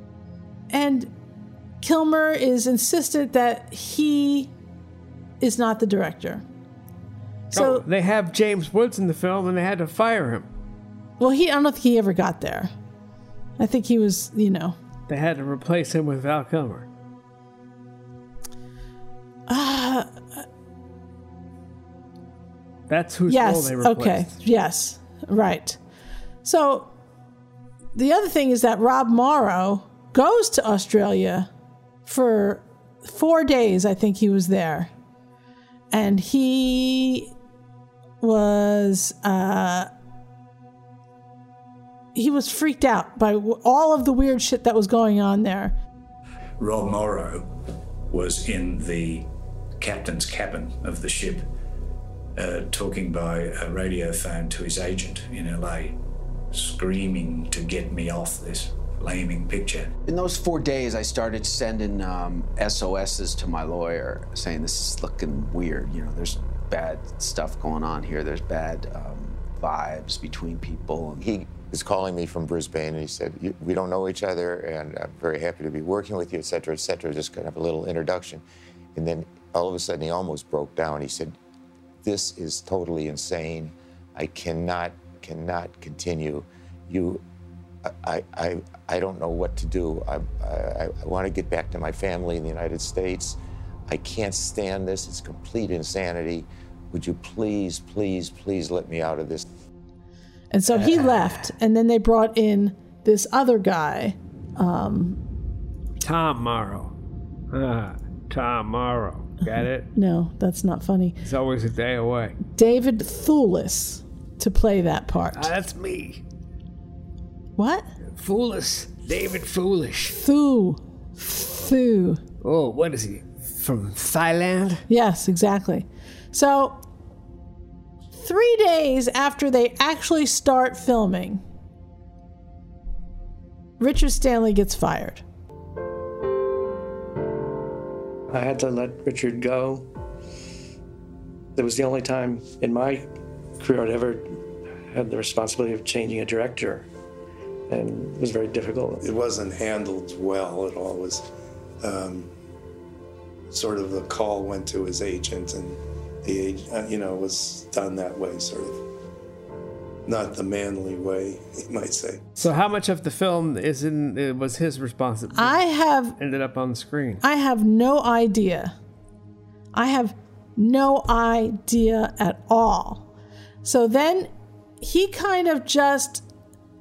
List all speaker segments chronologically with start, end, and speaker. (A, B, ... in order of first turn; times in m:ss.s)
0:00.7-0:01.1 A
0:01.8-0:04.5 A
0:05.4-0:06.4 A
0:07.5-0:10.5 B
0:07.5-0:07.8 A
0:11.2-0:12.7 A
0:13.6-0:14.8 A
0:15.1-0:16.9 B
0:19.5-0:20.4 A
0:22.9-0:24.3 B
0:23.3-0:25.8 A
0:26.4-0:26.9 A
0:28.0-0:31.5 A
0:32.1-0:34.9 A
0:35.9-0:37.3 A
0:38.2-0:39.9 A
0:42.2-0:45.8 A
0:46.6-0:47.5 C
0:48.1-0:49.3 C
0:49.8-0:51.5 C
0:52.4-0:56.0 C
0:56.5-1:00.0 C
1:00.1-1:11.3 D
1:11.2-1:18.4 E
1:19.0-1:21.4 E
1:22.0-1:27.2 E
1:27.8-1:39.5 E
1:40.5-1:45.2 A
1:40.7-1:41.1 B
1:46.0-1:46.9 B
1:47.5-1:49.9 B
1:49.9-1:51.2 A
1:51.2-1:52.4 B
1:52.6-1:55.5 A
1:55.4-1:56.2 B
1:57.6-1:57.9 A
1:58.2-2:00.2 B
2:00.1-2:02.2 A
2:02.4-2:04.8 B
2:04.9-2:06.8 A
2:08.1-2:11.4 A
2:13.8-2:15.2 A
2:18.3-2:19.9 F
2:21.6-2:23.1 F
2:23.6-2:24.3 F
2:24.9-2:26.9 F
2:27.7-2:29.0 F
2:29.0-2:31.2 G
2:31.8-2:32.3 G
2:33.5-2:38.8 G
2:40.1-2:42.2 G
2:42.4-2:45.6 B
2:45.3-2:46.2 A
2:46.2-2:47.2 B
2:47.2-2:48.7 A
2:49.8-2:53.1 A
2:53.6-2:54.3 A
2:54.8-2:56.2 A